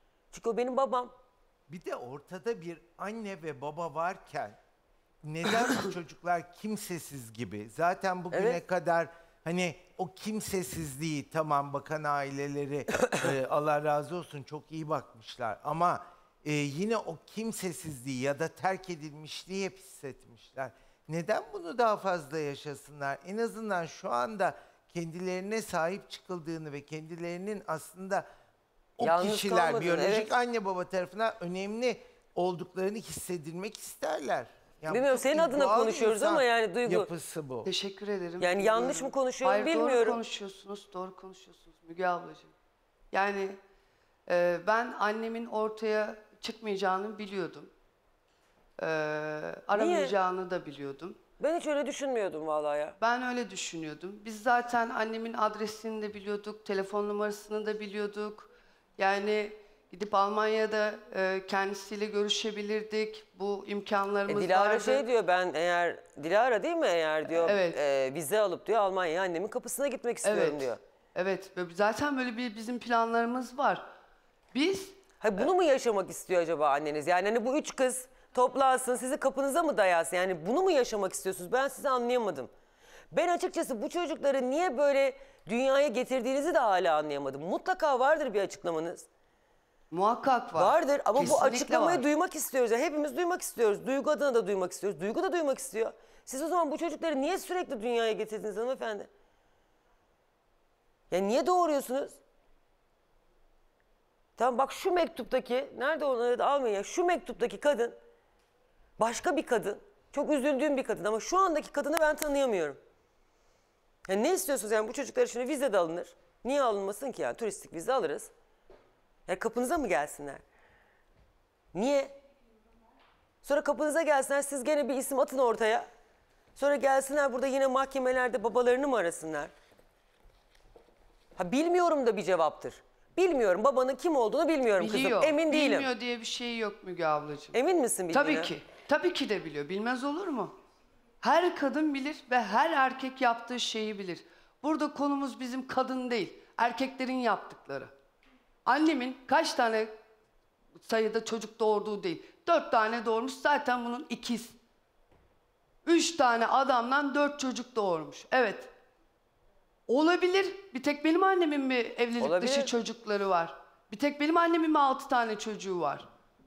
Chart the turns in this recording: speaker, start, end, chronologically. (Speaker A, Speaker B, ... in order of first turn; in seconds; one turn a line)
Speaker A: 0.3-1.1
Speaker B: 1.7-4.6
Speaker B: 5.2-28.2
Speaker A: 8.3-8.6
Speaker B: 29.0-37.7
Speaker A: 29.0-30.3
Speaker A: 34.9-37.1
Speaker C: 37.6-42.5
Speaker A: 38.4-40.2
Speaker C: 43.1-43.6
Speaker C: 44.3-47.7
Speaker C: 48.8-51.1
Speaker A: 49.7-50.1
Speaker A: 51.4-53.0
Speaker C: 53.0-65.0
Speaker A: 64.3-70.8
Speaker C: 67.4-67.8
Speaker C: 70.2-73.8
Speaker C: 74.5-75.0
Speaker A: 75.2-82.5
Speaker A: 83.1-89.1
Speaker C: 89.9-92.0
Speaker A: 90.6-99.1
Speaker A: 101.1-102.2
Speaker A: 104.4-108.0
Speaker A: 109.0-112.8
Speaker A: 114.0-118.3
Speaker A: 119.3-120.4
Speaker A: 121.7-122.1
Speaker A: 123.4-125.9
Speaker A: 126.5-129.5
Speaker A: 131.4-135.9
Speaker C: 134.8-137.6
Speaker A: 137.5-138.5
Speaker C: 138.1-140.5
Speaker C: 141.2-147.9
Speaker C: 148.7-149.9
Speaker C: 150.8-154.5
Speaker C: 155.8-158.7
Speaker C: 159.9-166.1
Speaker A: 162.2-162.7